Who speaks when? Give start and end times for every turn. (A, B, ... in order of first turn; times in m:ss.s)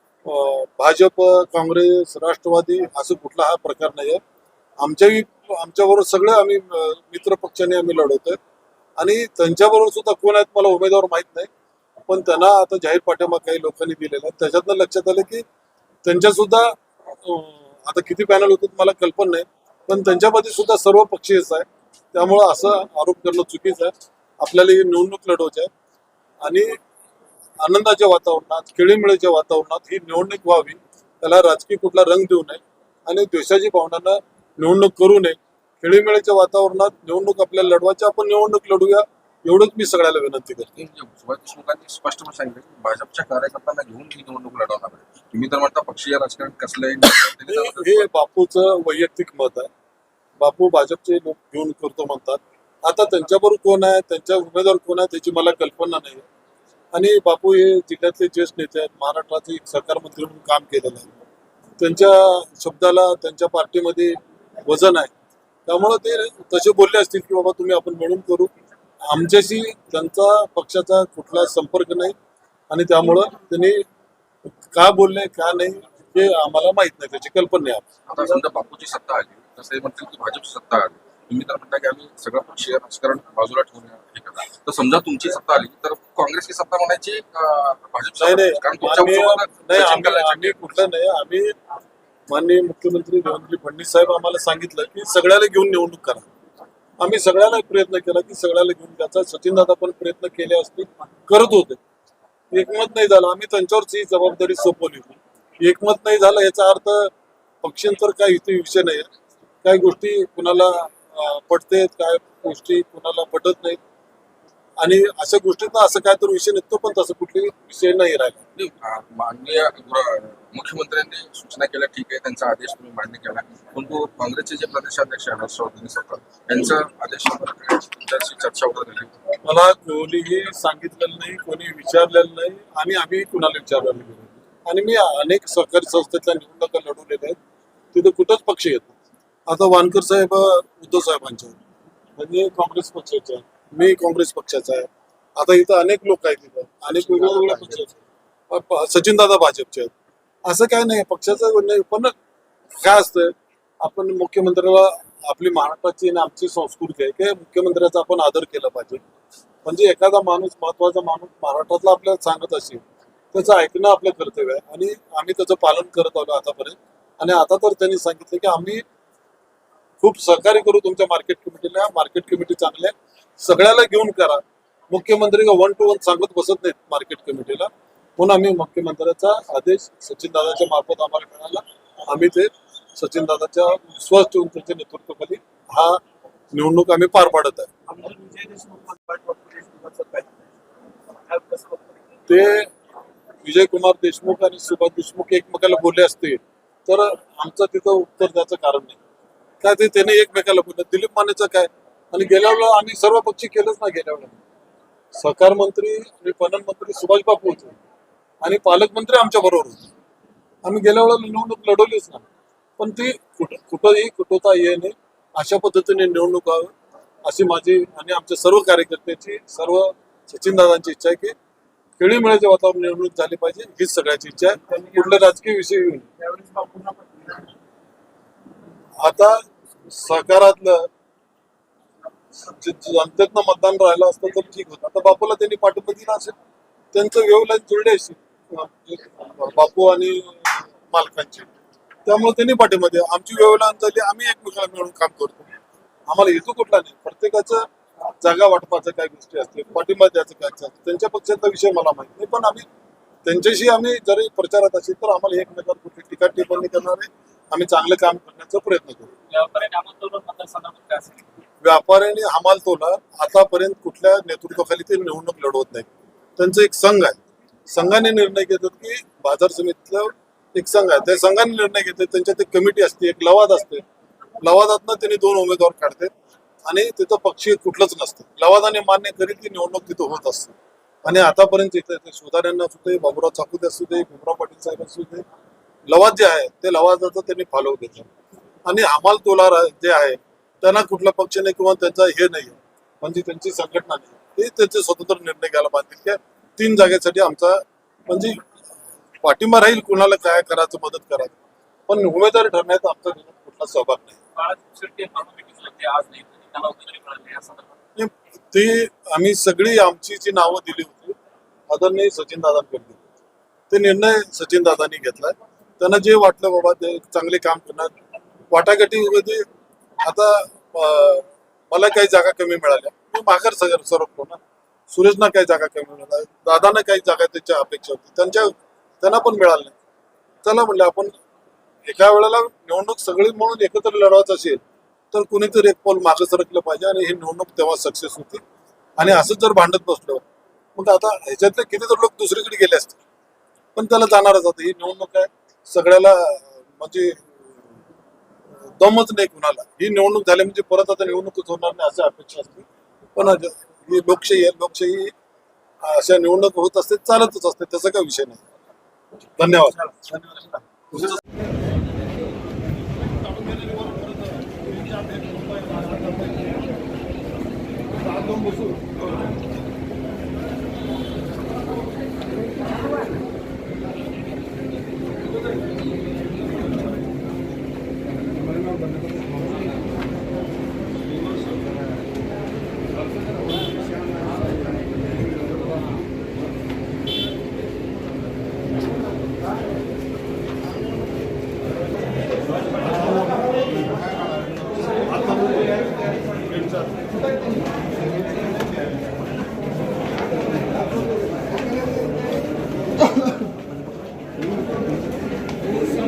0:00.2-0:04.2 A
0:04.8-0:08.4 A
0:09.0-0:11.5 A
0:12.1-0:15.4 A
0:16.0-0:25.7 A
0:26.4-0:26.8 A
0:27.6-0:40.8 A
0:40.8-0:48.1 B
0:47.5-0:49.7 A
0:50.4-0:56.3 A
0:56.9-1:01.1 A
1:01.8-1:05.1 A
1:05.7-1:08.5 A
1:09.1-1:12.2 A
1:12.7-1:13.8 A
1:14.5-1:17.8 A
1:18.1-1:30.7 B
1:28.2-1:31.5 A
1:32.3-1:36.3 A
1:37.0-1:41.8 A
1:42.5-1:49.1 A
1:49.6-1:53.8 A
1:54.8-1:58.4 A
1:58.6-2:09.2 B
2:09.4-2:17.4 A
2:17.9-2:19.0 A
2:19.5-2:21.6 A
2:22.2-2:27.9 A
2:27.1-2:27.8 B
2:28.5-2:29.9 A
2:30.4-2:32.1 A
2:32.7-2:39.0 A
2:39.6-2:48.8 A
2:50.0-3:06.0 A
3:06.5-3:07.7 A
3:07.9-3:10.3 C
3:11.3-3:12.0 C
3:12.3-3:12.7 A
3:13.4-3:19.0 A
3:19.6-3:24.4 A
3:25.2-3:27.8 A
3:28.4-3:29.9 A
3:30.6-3:32.2 A
3:32.8-3:36.7 A
3:37.2-3:41.4 A
3:42.0-3:46.1 A
3:46.3-3:47.4 C
3:49.0-3:50.9 A
3:52.4-3:56.4 A
3:56.9-4:01.5 A
4:02.0-4:05.6 A
4:06.1-4:07.6 A
4:08.2-4:12.7 A
4:13.3-4:19.1 A
4:19.3-4:21.3 C
4:21.6-4:33.8 A
4:34.4-4:36.1 A
4:36.7-4:45.2 A
4:45.9-4:48.1 A
4:48.7-4:58.4 A
4:59.2-5:04.2 A
5:04.4-5:07.7 C
5:08.0-5:11.2 A
5:11.7-5:13.0 A
5:13.7-5:17.9 A
5:18.5-5:19.4 A
5:20.0-5:24.4 A
5:24.9-5:29.8 A
5:30.4-5:31.2 A
5:31.8-5:38.4 A
5:39.0-5:40.2 A
5:40.8-5:43.0 A
5:43.8-5:47.4 A
5:48.8-5:55.1 A
5:55.8-5:58.4 A
5:59.4-6:01.2 A
6:03.4-6:04.6 A
6:05.3-6:05.8 A
6:08.3-6:08.5 A